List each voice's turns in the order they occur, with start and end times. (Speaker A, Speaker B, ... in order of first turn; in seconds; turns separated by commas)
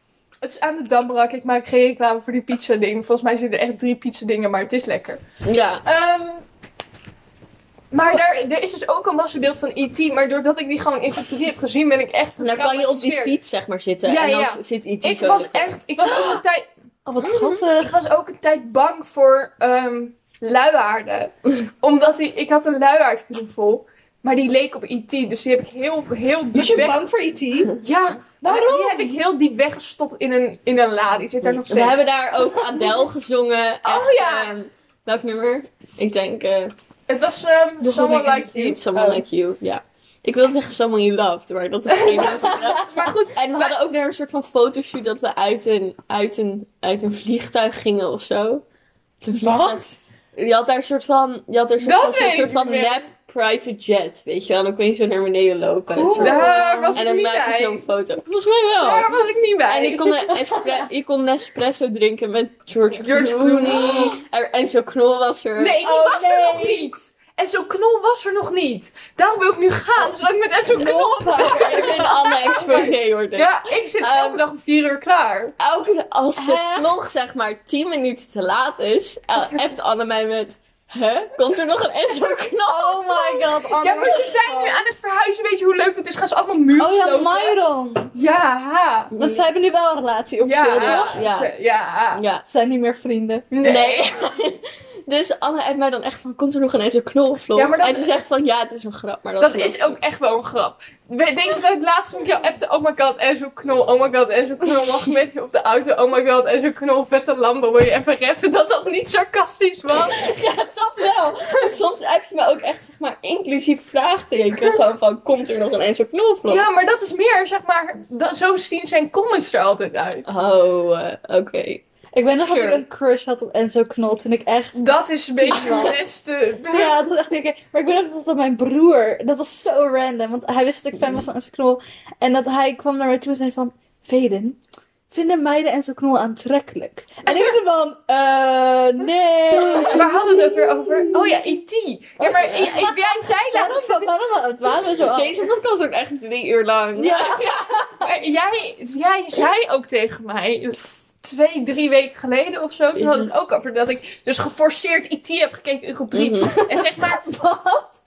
Speaker A: 0.4-5.2, Speaker B: 5.4-5.8, Speaker A: 5.8-6.4, Speaker A: 7.9-13.4, Speaker B: 12.4-16.4, Speaker A: 14.0-27.0, Speaker B: 17.2-17.6, Speaker C: 26.5-27.8, Speaker A: 27.8-32.0, Speaker C: 28.4-29.1, Speaker B: 31.4-36.7, Speaker A: 33.8-34.5, Speaker A: 37.1-39.2, Speaker B: 37.8-48.6, Speaker A: 42.0-43.8, Speaker B: 49.2-59.1, Speaker A: 49.4-49.9, Speaker A: 51.8-53.0, Speaker C: 55.9-57.0, Speaker A: 56.1-57.8, Speaker A: 58.8-60.6, Speaker B: 59.7-65.8, Speaker A: 63.0-64.2, Speaker A: 65.6-72.8, Speaker C: 65.8-66.9, Speaker C: 70.7-72.9, Speaker B: 71.4-74.4, Speaker A: 73.3-75.5, Speaker B: 75.6-83.7, Speaker C: 76.3-77.0, Speaker C: 82.7-84.8, Speaker A: 83.7-87.6, Speaker C: 86.8-88.1, Speaker A: 88.1-89.1, Speaker B: 89.1-89.4, Speaker C: 89.2-91.2, Speaker A: 90.4-92.2, Speaker B: 90.8-91.5, Speaker B: 92.1-92.4, Speaker C: 92.5-93.5, Speaker A: 93.5-94.1, Speaker B: 93.6-100.0, Speaker A: 97.5-98.2, Speaker A: 99.4-110.3, Speaker B: 109.9-116.7, Speaker A: 116.5-120.3, Speaker B: 120.2-121.8, Speaker C: 122.1-124.8, Speaker A: 122.4-122.8, Speaker A: 124.7-127.0, Speaker C: 125.4-125.8, Speaker B: 125.5-126.0, Speaker C: 126.7-134.6, Speaker C: 135.1-141.1, Speaker B: 139.5-140.2, Speaker A: 139.8-144.1, Speaker B: 142.2-142.8, Speaker C: 143.5-145.4, Speaker B: 145.1-147.4, Speaker C: 146.9-148.1, Speaker A: 147.2-157.2, Speaker B: 152.9-153.3, Speaker B: 156.1-156.5, Speaker C: 156.4-158.0